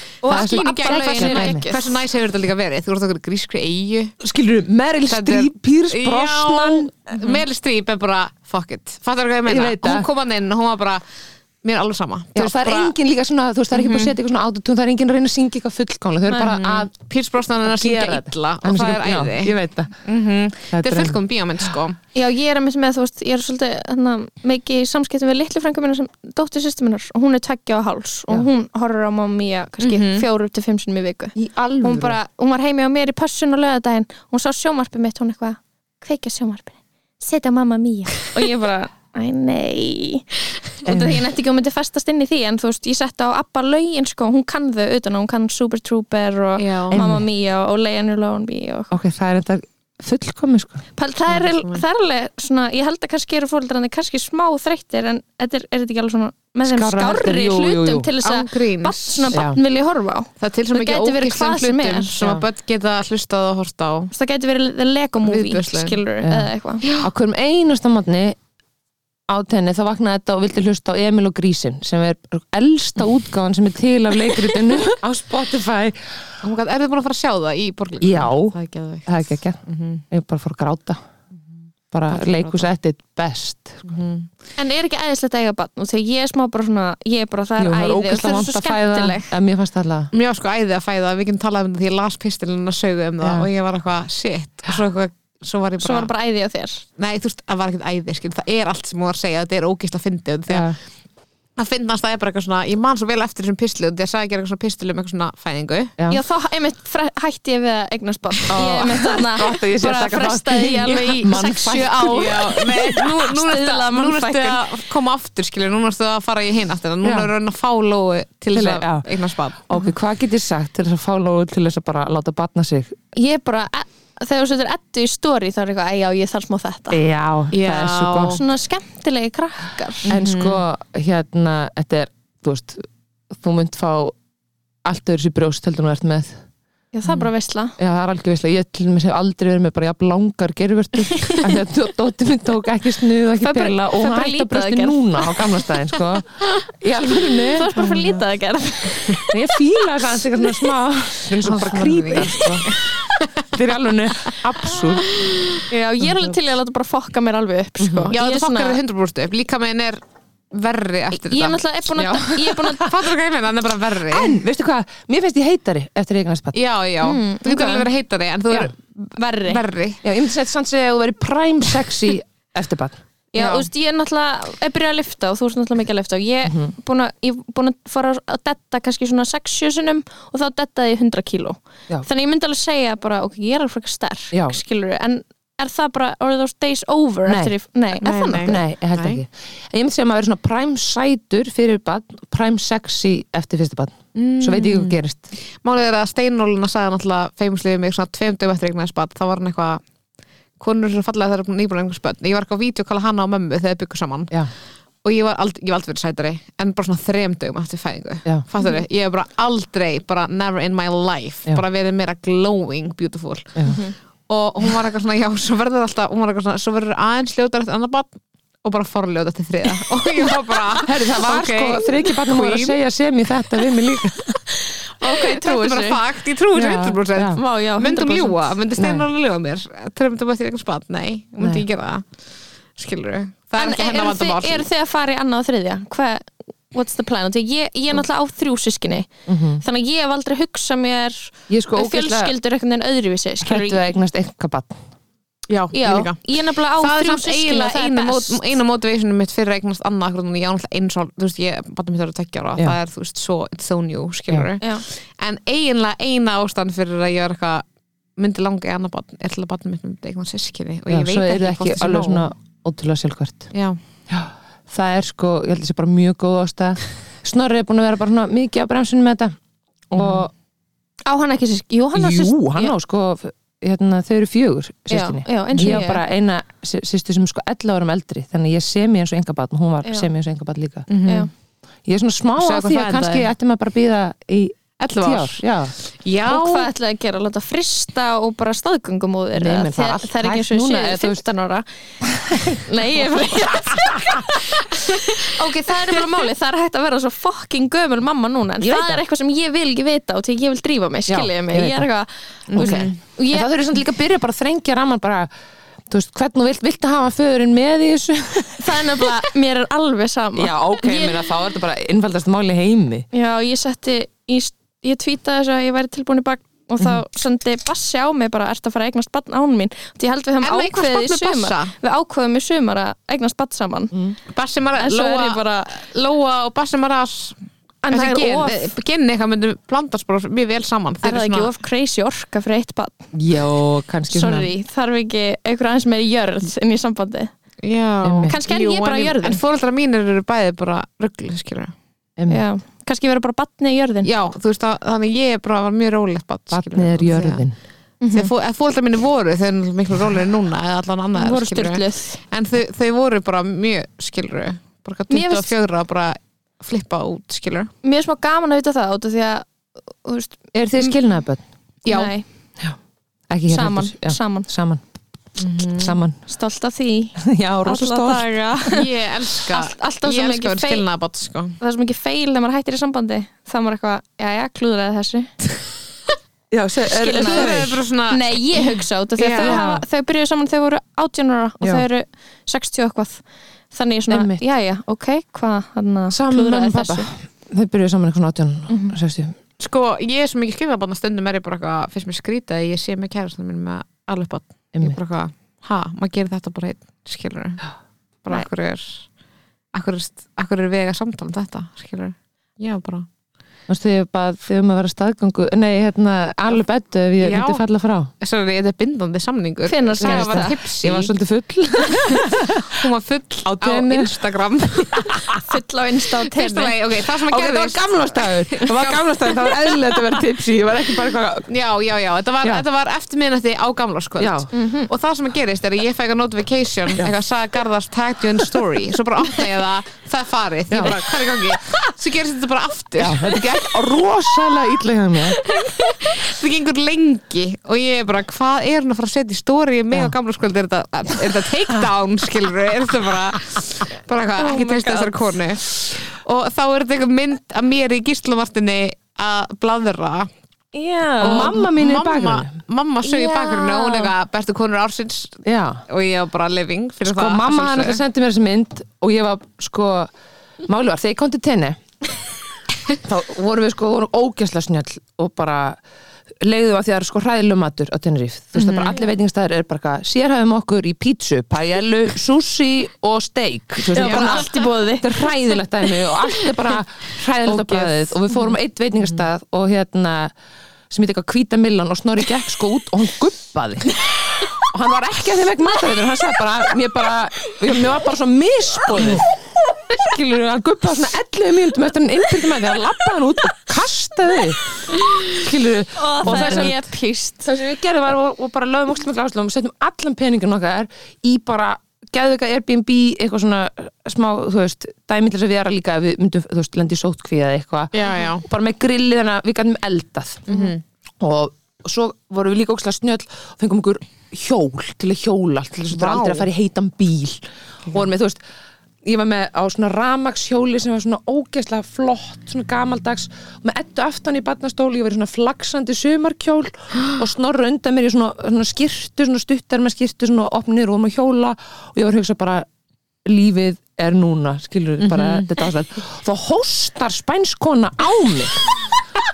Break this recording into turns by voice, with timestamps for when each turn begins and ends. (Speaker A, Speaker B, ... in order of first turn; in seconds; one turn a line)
Speaker A: 0.2-4.2
Speaker B: 0.2-1.9
Speaker C: 0.3-1.7
Speaker C: 4.2-7.4
Speaker A: 5.1-11.0
Speaker C: 9.5-10.1
Speaker A: 11.6-12.9
Speaker C: 12.3-16.9
Speaker A: 13.7-14.2
Speaker A: 16.3-22.0
Speaker C: 17.6-19.9
Speaker C: 20.7-21.2
Speaker B: 22.1-48.9
Speaker A: 29.8-30.2
Speaker C: 31.4-32.2
Speaker C: 40.9-41.3
Speaker A: 46.6-47.0
Speaker C: 46.9-47.2
Speaker C: 48.9-50.8
Speaker B: 51.0-62.1
Speaker A: 51.3-51.8
Speaker C: 56.6-58.1
Speaker A: 58.2-59.4
Speaker C: 59.3-59.6
Speaker A: 60.4-64.1
Speaker C: 62.2-62.5
Speaker B: 64.1-66.9
Speaker A: 65.2-66.0
Speaker C: 66.2-68.4
Speaker C: 69.3-76.2
Speaker A: 76.4-80.0
Speaker C: 78.0-81.0
Speaker C: 81.9-83.9
Speaker A: 82.1-82.7
Speaker A: 83.9-84.3
Speaker B: 84.6-89.3
Speaker C: 87.6-90.1
Speaker A: 90.1-96.1
Speaker C: 93.2-93.5
Speaker B: 95.8-96.8
Speaker A: 97.0-100.7
Speaker C: 100.5-100.8
Speaker A: 101.6-106.0
Speaker B: 106.1-114.6
Speaker C: 108.5-112.3
Speaker A: 110.9-111.3
Speaker A: 111.8-119.7
Speaker C: 117.0-117.3
Speaker C: 118.5-119.1
Speaker C: 119.7-123.0
Speaker B: 123.2-127.0
Speaker C: 126.9-128.4
Speaker A: 127.5-128.4
Speaker B: 128.3-130.1
Speaker A: 130.0-130.6
Speaker C: 130.1-134.2
Speaker C: 134.8-136.4
Speaker B: 136.9-137.8
Speaker C: 137.8-148.2
Speaker B: 141.1-141.4
Speaker B: 143.4-145.5
Speaker B: 147.4-149.4
Speaker C: 149.3-152.7
Speaker A: 151.4-153.4
Speaker C: 153.5-155.1
Speaker A: 155.2-155.5
Speaker B: 155.7-158.8
Speaker C: 156.0-156.3
Speaker C: 157.8-158.1
Speaker A: 158.1-160.0
Speaker A: 160.5-161.6
Speaker B: 161.2-162.9
Speaker C: 161.9-162.8
Speaker A: 162.6-164.4
Speaker C: 164.1-166.6
Speaker A: 166.5-168.8
Speaker B: 167.0-167.8
Speaker B: 169.0-169.6
Speaker A: 169.4-170.0
Speaker C: 170.0-173.0
Speaker B: 173.3-188.6
Speaker A: 173.4-173.7
Speaker C: 176.5-176.7
Speaker C: 184.3-184.6
Speaker C: 187.3-187.5
Speaker A: 188.0-189.2
Speaker C: 188.4-195.3
Speaker A: 194.2-195.0
Speaker A: 195.6-199.8
Speaker A: 200.6-204.4
Speaker A: 205.0-218.1
Speaker B: 213.7-213.9
Speaker A: 218.6-222.8
Speaker C: 220.8-224.4
Speaker B: 225.0-226.0
Speaker A: 225.0-232.1
Speaker C: 226.5-227.4
Speaker B: 227.3-228.6
Speaker C: 228.8-229.1
Speaker C: 231.4-231.6
Speaker A: 232.8-234.7
Speaker B: 233.6-243.9
Speaker C: 239.3-239.6
Speaker C: 241.5-242.3
Speaker C: 243.4-244.8
Speaker A: 245.5-257.6
Speaker B: 245.7-248.6
Speaker A: 258.2-262.3
Speaker C: 260.9-263.5
Speaker A: 263.5-263.8
Speaker C: 264.1-269.4
Speaker C: 269.9-270.3
Speaker B: 271.1-272.7
Speaker C: 271.9-280.9
Speaker B: 274.9-276.0
Speaker A: 280.9-281.3
Speaker C: 281.9-285.7
Speaker A: 282.4-283.3
Speaker A: 284.8-285.4
Speaker A: 286.0-286.7
Speaker B: 286.3-291.7
Speaker C: 289.4-291.2
Speaker C: 292.2-294.3
Speaker B: 292.5-303.5
Speaker C: 298.6-299.0
Speaker C: 301.1-301.9
Speaker A: 302.5-303.0
Speaker C: 302.5-305.3
Speaker C: 305.9-308.9
Speaker B: 308.6-311.2
Speaker C: 310.4-313.1
Speaker B: 313.1-323.9
Speaker A: 320.4-321.7
Speaker A: 324.3-327.4
Speaker B: 324.8-325.7
Speaker B: 327.8-328.7
Speaker A: 327.9-331.5
Speaker B: 331.0-333.1
Speaker C: 333.1-334.5
Speaker B: 334.1-337.3
Speaker A: 337.6-341.7
Speaker C: 338.0-338.4
Speaker B: 338.3-339.4
Speaker C: 342.2-342.4
Speaker B: 342.3-344.1
Speaker A: 344.0-347.4
Speaker C: 346.5-347.6
Speaker B: 348.0-348.3
Speaker A: 348.1-357.7
Speaker B: 351.2-352.2
Speaker B: 355.1-355.5
Speaker B: 357.8-359.5
Speaker B: 360.0-361.0
Speaker C: 360.5-361.4
Speaker A: 361.9-362.1
Speaker B: 361.9-362.2
Speaker C: 363.3-364.8
Speaker B: 363.5-364.5
Speaker A: 365.4-366.0
Speaker C: 365.8-366.2
Speaker B: 366.3-368.9
Speaker C: 367.2-368.4
Speaker A: 368.7-371.6
Speaker B: 369.5-370.8
Speaker B: 371.6-375.3
Speaker C: 376.5-377.7
Speaker B: 376.9-387.1
Speaker A: 377.2-379.6
Speaker C: 379.4-379.9
Speaker C: 384.1-384.4
Speaker C: 386.1-389.4
Speaker B: 388.7-389.0
Speaker A: 389.6-397.6
Speaker A: 398.2-399.1
Speaker A: 399.7-403.1
Speaker C: 403.7-408.1
Speaker A: 407.2-407.6
Speaker A: 408.2-411.1
Speaker B: 409.7-410.6
Speaker C: 410.0-412.7
Speaker A: 412.1-415.3
Speaker C: 413.4-414.1
Speaker C: 414.9-415.4
Speaker B: 415.4-416.8
Speaker A: 416.3-419.4
Speaker C: 417.2-421.5
Speaker A: 421.5-433.4
Speaker C: 424.2-424.5
Speaker B: 424.5-424.9
Speaker C: 430.7-431.0
Speaker C: 433.0-435.4
Speaker B: 435.4-436.1
Speaker A: 435.6-450.3
Speaker B: 444.4-445.4
Speaker B: 450.7-451.6
Speaker A: 451.2-458.0
Speaker C: 451.2-452.5
Speaker B: 453.0-454.1
Speaker C: 455.4-455.8
Speaker C: 457.1-460.1
Speaker C: 460.7-461.8
Speaker C: 463.0-465.8
Speaker C: 466.4-480.3
Speaker A: 468.6-469.0
Speaker B: 473.9-475.2
Speaker A: 474.0-474.5
Speaker C: 480.9-494.6
Speaker C: 495.3-496.9
Speaker B: 495.9-497.5
Speaker A: 496.2-496.7
Speaker C: 497.4-510.5
Speaker A: 507.9-508.4
Speaker A: 510.5-510.8
Speaker C: 511.2-518.4
Speaker A: 515.9-516.5
Speaker C: 519.0-532.7
Speaker C: 533.2-538.8
Speaker A: 535.0-535.5